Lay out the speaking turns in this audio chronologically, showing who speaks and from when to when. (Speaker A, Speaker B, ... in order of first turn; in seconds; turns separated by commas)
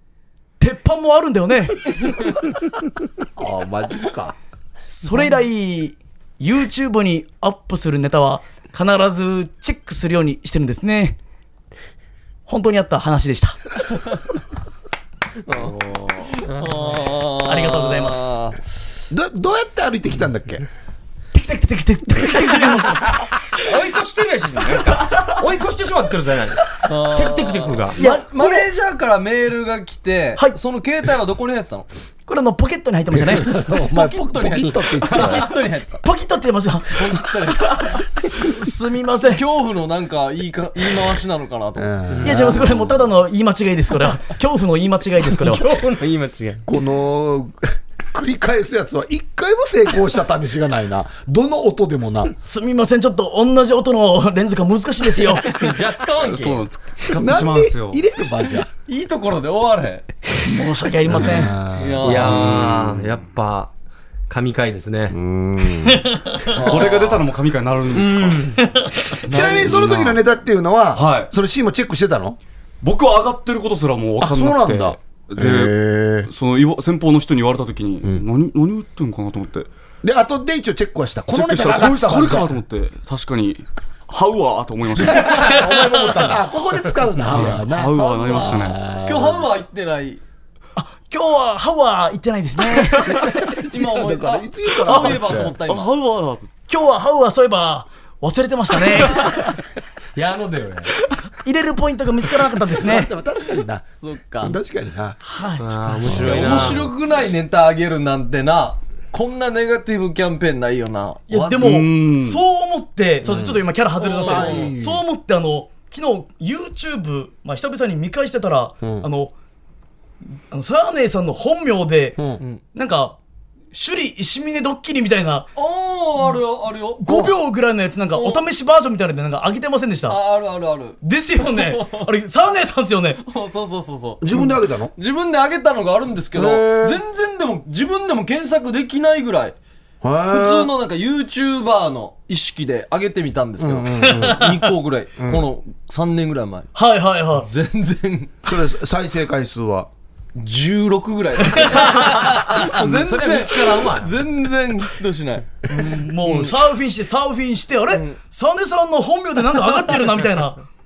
Speaker A: 0.6-2.2, Speaker B: 3.4-4.3, Speaker A: 4.8-11.2, Speaker A: 12.5-13.6, Speaker C: 15.5-18.6, Speaker A: 17.4-18.3, Speaker B: 19.1-20.6, Speaker A: 21.3-23.3, Speaker D: 23.5-27.9, Speaker C: 26.8-31.9, Speaker A: 28.0-28.7, Speaker A: 32.3-33.8, Speaker B: 33.1-35.5, Speaker C: 33.8-36.0, Speaker A: 36.0-39.4, Speaker C: 36.9-37.8, Speaker C: 39.3-41.9, Speaker B: 41.8-42.8, Speaker D: 42.2-42.4, Speaker A: 42.2-45.6, Speaker D: 45.2-46.6, Speaker B: 46.6-52.3, Speaker A: 52.3-55.7, Speaker D: 55.5-56.7, Speaker E: 56.2-58.0, Speaker B: 57.1-58.7, Speaker C: 58.9-60.0, Speaker A: 60.4-61.5, Speaker B: 61.1-62.1, Speaker C: 61.8-62.6, Speaker D: 62.0-63.7, Speaker E: 62.2-63.1, Speaker D: 64.3-65.2, Speaker B: 65.1-66.1, Speaker C: 66.5-67.2, Speaker E: 66.5-68.6, Speaker D: 67.9-68.6, Speaker E: 69.2-70.2, Speaker B: 69.2-72.4, Speaker E: 70.9-71.3, Speaker E: 72.8-79.7, Speaker B: 74.2-76.3, Speaker B: 80.0-82.5, Speaker E: 81.3-85.6, Speaker D: 85.0-86.5, Speaker A: 85.3-86.2, Speaker B: 86.1-89.5, Speaker E: 87.3-88.8, Speaker C: 88.0-90.2, Speaker A: 90.8-93.2, Speaker C: 93.1-95.9, Speaker B: 93.1-95.5, Speaker E: 94.8-96.5, Speaker A: 96.7-99.5, Speaker D: 100.2-100.9, Speaker A: 101.3-103.1, Speaker B: 102.8-103.8, Speaker C: 104.0-104.5, Speaker B: 104.4-105.2, Speaker A: 105.2-106.7, Speaker D: 105.6-106.9, Speaker C: 106.1-111.8, Speaker A: 111.3-119.3, Speaker E: 111.6-112.4, Speaker B: 113.3-113.5, Speaker C: 114.0-114.7, Speaker B: 114.2-115.0, Speaker B: 118.8-119.1, Speaker A: 120.5-122.2, Speaker B: 122.2-122.4, Speaker A: 122.7-123.2, Speaker A: 123.7-125.5, Speaker C: 125.5-127.3, Speaker A: 127.0-130.2, Speaker C: 128.1-128.4, Speaker C: 130.1-132.1, Speaker A: 131.0-133.2, Speaker C: 133.2-139.6, Speaker B: 134.2-134.9, Speaker B: 136.3-137.0, Speaker B: 140.0-140.7, Speaker C: 140.3-146.7, Speaker B: 143.6-144.5, Speaker A: 144.0-144.6, Speaker B: 145.2-145.4, Speaker A: 146.7-147.5, Speaker C: 147.3-148.4, Speaker B: 148.4-149.9, Speaker C: 150.3-156.5, Speaker A: 151.6-152.2, Speaker D: 152.6-154.1, Speaker A: 155.7-160.6, Speaker C: 157.9-158.2